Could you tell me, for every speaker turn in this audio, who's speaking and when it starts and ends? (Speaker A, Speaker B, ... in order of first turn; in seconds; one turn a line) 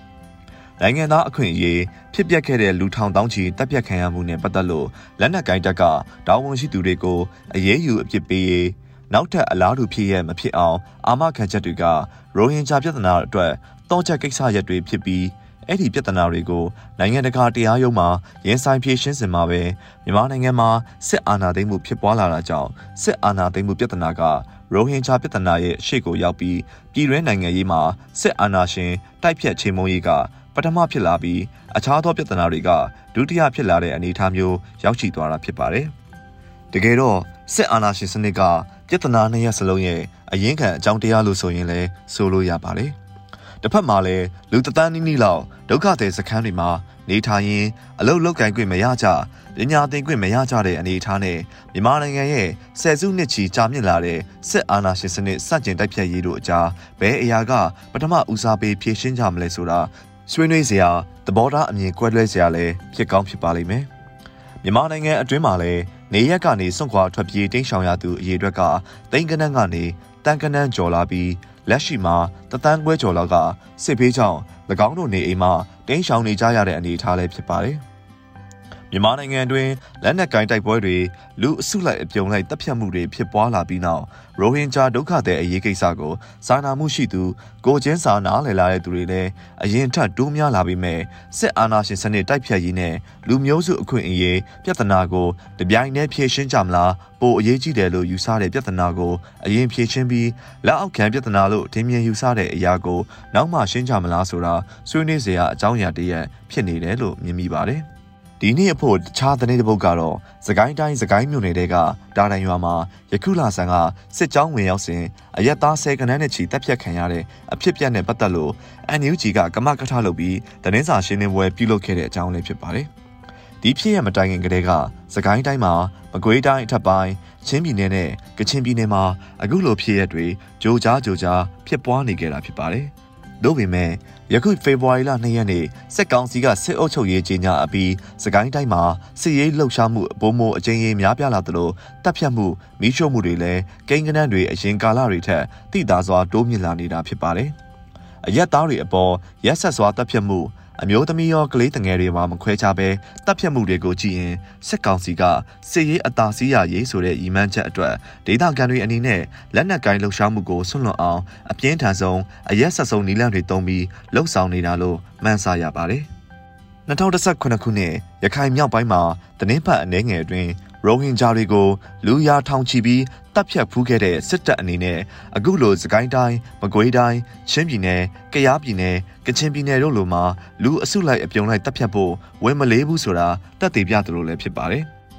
Speaker A: 0.8-35.9
Speaker A: 36.7-43.0
Speaker A: 43.6-63.9
Speaker A: 64.6-77.8
Speaker A: 78.9-107.9
Speaker A: 108.4-122.9
Speaker A: 123.6-147.6
Speaker A: 148.2-166.1
Speaker A: 166.9-184.9